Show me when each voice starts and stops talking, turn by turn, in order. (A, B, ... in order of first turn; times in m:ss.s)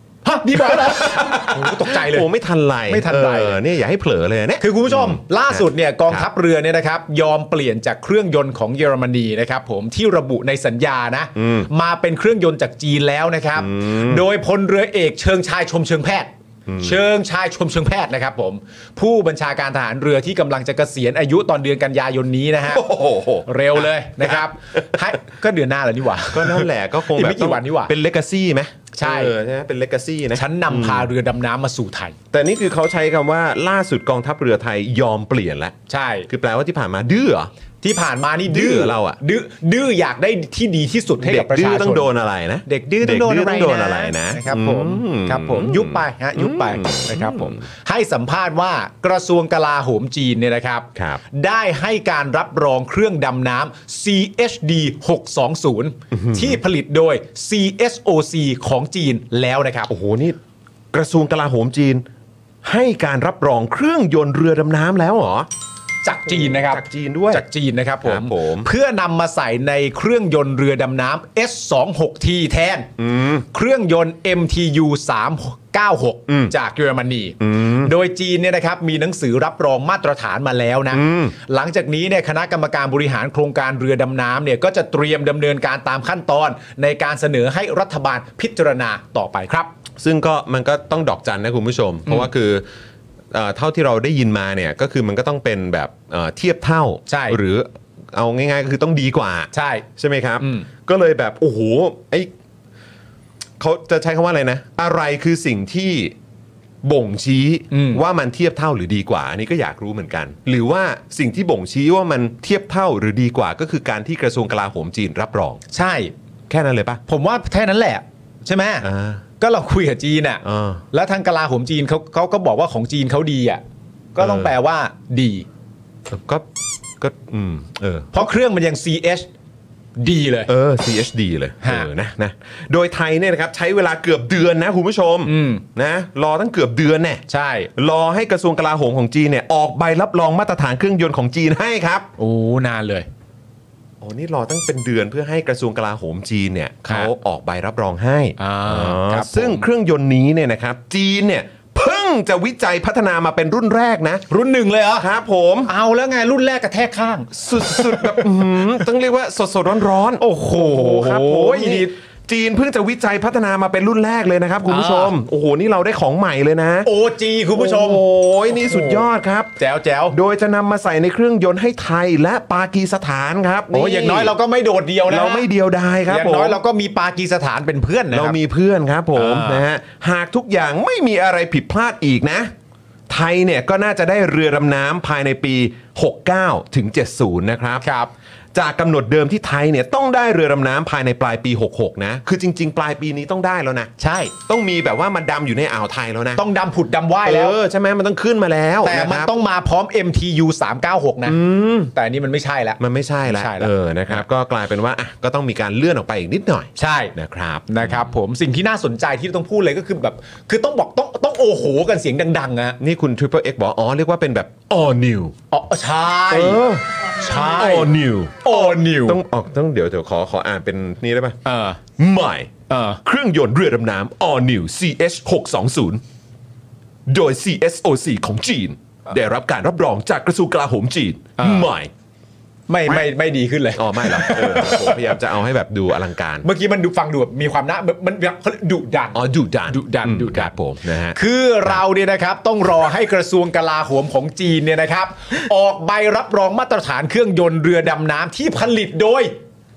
0:00.2-0:02.3 A
0:00.5-0:06.3 B
0:02.9-0:03.6 A
0:04.6-0:16.3 A
0:11.4-0:11.7 B
0:13.6-0:14.2 B
0:16.7-0:17.0 B
0:16.8-0:22.8 A
0:22.6-0:25.0 B
0:23.5-0:27.9 A
0:26.3-0:31.1 B
0:28.9-0:29.3 A
0:30.3-0:32.2 A
0:32.3-0:35.8 B
0:35.9-0:36.3 A
0:36.3-0:37.5 B
0:37.8-0:42.1 A
0:38.4-0:39.2 B
0:41.2-0:47.6 B
0:42.6-0:59.9 A
0:51.0-0:51.2 B
0:56.1-0:56.6 B
0:59.9-1:00.4 B
1:00.9-1:02.0 B
1:02.6-1:05.5 B
1:06.0-1:12.9 A
1:06.3-1:07.4 B
1:08.0-1:08.7 B
1:13.0-1:13.5 B
1:13.5-1:29.7 A
1:16.3-1:16.5 B
1:17.4-1:17.9 B
1:20.9-1:21.3 B
1:30.0-1:32.6 B
1:33.3-1:42.3 B
1:37.1-1:37.4 A
1:39.5-1:39.8 A
1:40.4-1:40.7 A
1:43.6-1:46.1 B
1:46.8-1:55.6 B
1:47.7-1:48.0 A
1:55.7-1:56.1 A
1:56.5-1:57.0 B
1:57.1-1:58.9 A
1:58.8-1:59.2 B
1:59.4-2:03.6 A
2:00.4-2:00.8 B
2:04.1-2:05.5 A
2:04.2-2:04.5 B
2:06.1-2:06.4 B
2:07.0-2:08.3 B
2:08.1-2:09.3 A
2:10.0-2:10.5 A
2:10.5-2:17.2 B
2:11.6-2:11.9 A
2:15.2-2:15.6 A
2:17.3-2:17.7 A
2:17.8-2:22.1 B
2:22.2-2:23.1 A
2:24.0-2:34.3 B
2:26.8-2:27.1 A
2:28.4-2:29.6 A
2:34.3-2:35.1 A
2:35.0-2:35.7 B
2:35.7-2:38.2 A
2:37.3-2:46.9 B
2:40.2-2:41.9 A
2:44.7-2:45.1 A
2:46.8-2:49.0 A
2:47.5-2:49.6 B
2:49.6-2:50.2 A
2:50.1-2:54.3 B
2:53.7-2:55.4 A
2:55.1-2:56.6 B
2:56.1-2:58.4 A
2:58.1-3:02.5 B
2:59.1-2:59.6 A
3:03.1-3:07.8 B
3:07.8-3:08.1 A
3:08.5-3:13.9 B
3:14.0-3:14.3 A
3:14.5-3:16.4 B
3:16.4-3:17.6 A
3:17.2-3:19.3 B
3:18.8-3:21.4 A
3:21.2-3:21.9 B
3:21.9-3:24.2 A
3:22.8-3:28.1 B
3:26.8-3:27.1 A
3:27.7-3:32.8 A
3:32.8-3:35.3 B
3:35.5-3:36.6 A
3:36.3-3:41.4 B
3:37.2-3:37.9 A
3:38.4-3:39.2 A
3:41.4-3:41.8 A
3:42.0-3:46.0 B
3:42.7-3:43.0 A
3:47.1-3:51.9 B
3:51.4-3:51.7 A
3:52.7-3:55.1 A
3:53.7-3:56.5 B
3:56.4-4:00.5 A
3:59.1-4:01.8 B
4:01.1-4:09.3 A